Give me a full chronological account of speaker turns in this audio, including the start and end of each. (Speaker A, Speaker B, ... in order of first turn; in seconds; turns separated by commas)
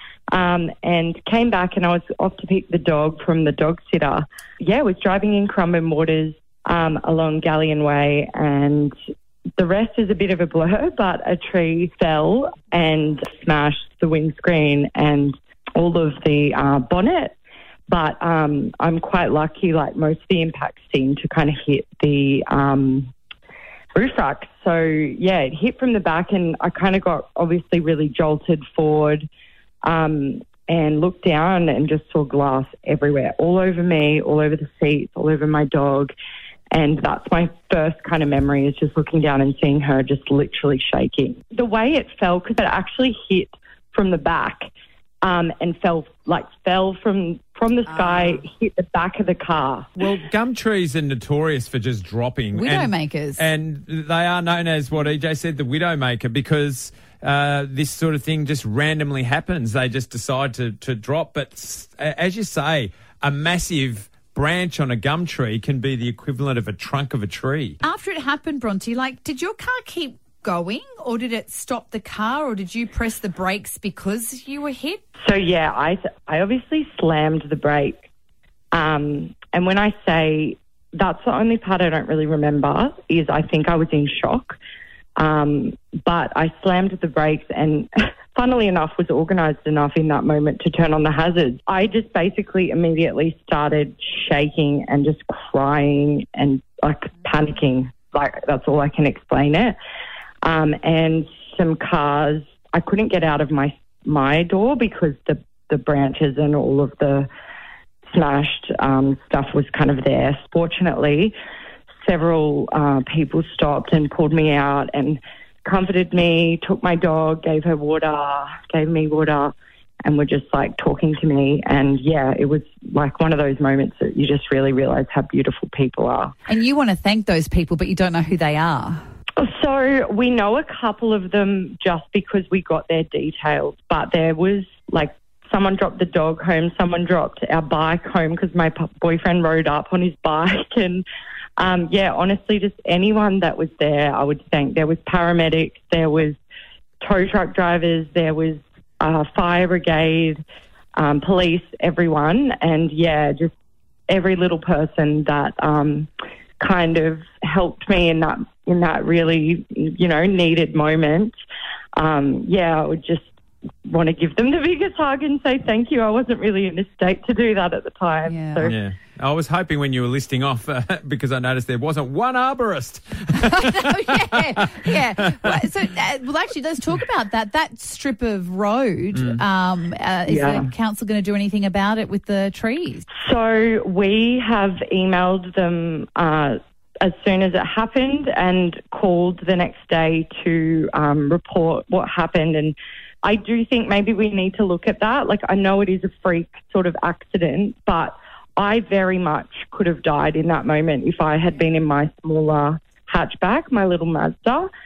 Speaker A: 0.3-8.9, Speaker A: 9.6-17.3, Speaker A: 17.9-23.1, Speaker A: 23.9-29.3, Speaker A: 29.8-36.1, Speaker A: 36.7-44.7, Speaker A: 45.2-49.9, Speaker B: 47.9-48.4, Speaker C: 50.0-67.8, Speaker B: 52.5-53.4, Speaker B: 67.8-75.0, Speaker A: 75.2-78.1, Speaker A: 78.7-84.6, Speaker A: 85.2-99.7, Speaker A: 100.4-107.3, Speaker A: 108.1-111.3, Speaker A: 112.0-126.3, Speaker B: 126.5-129.0, Speaker A: 129.4-141.0, Speaker A: 141.6-146.4, Speaker A: 147.0-150.4, Speaker A: 150.9-153.5, Speaker A: 154.1-156.1, Speaker A: 156.6-161.3, Speaker A: 161.9-163.3, Speaker A: 163.9-168.8, Speaker B: 168.2-168.7, Speaker C: 168.6-175.5, Speaker B: 173.4-183.1, Speaker C: 179.1-179.4, Speaker A: 180.3-180.7, Speaker A: 183.2-204.7